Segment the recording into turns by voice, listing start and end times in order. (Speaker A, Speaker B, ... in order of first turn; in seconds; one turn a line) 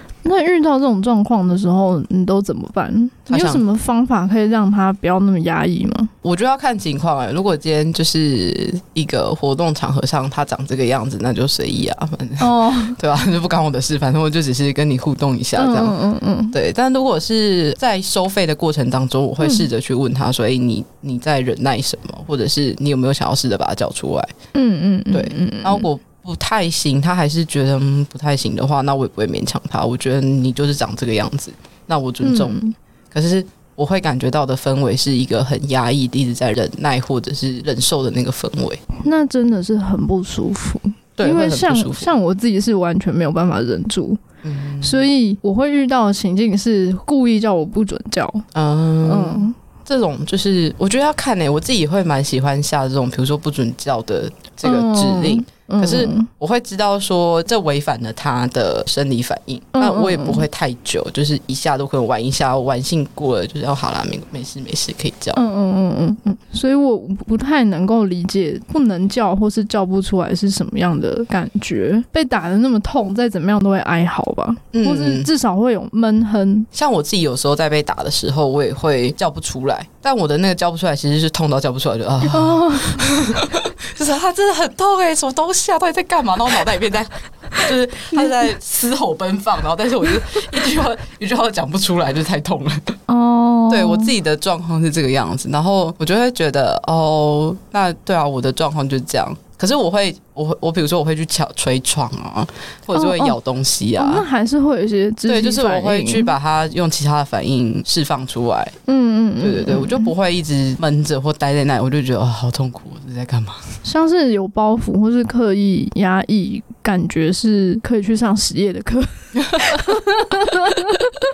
Speaker A: 0.2-6.1
Speaker B: 3.3-3.6
Speaker B: 6.2-15.9
Speaker A: 12.4-13.0
Speaker A: 15.6-16.6
Speaker B: 16.5-24.3
Speaker A: 19.4-19.7
Speaker A: 24.5-25.9
Speaker B: 25.1-32.5
Speaker A: 32.2-32.7
Speaker B: 33.1-38.9
Speaker A: 39.0-44.2
Speaker B: 41.2-42.1
Speaker B: 44.4-45.1
Speaker A: 44.8-48.4
Speaker B: 48.5-65.4
Speaker A: 49.0-49.5
Speaker A: 54.6-56.3
Speaker A: 59.7-60.5
Speaker A: 65.3-76.7
Speaker B: 74.7-75.3
Speaker B: 76.7-93.0
Speaker A: 82.2-83.0
Speaker A: 93.1-94.1
Speaker B: 93.7-104.2
Speaker A: 102.9-103.4
Speaker A: 104.0-106.3
Speaker B: 105.3-108.7
Speaker A: 108.8-110.1
Speaker B: 109.4-113.8
Speaker A: 113.8-121.0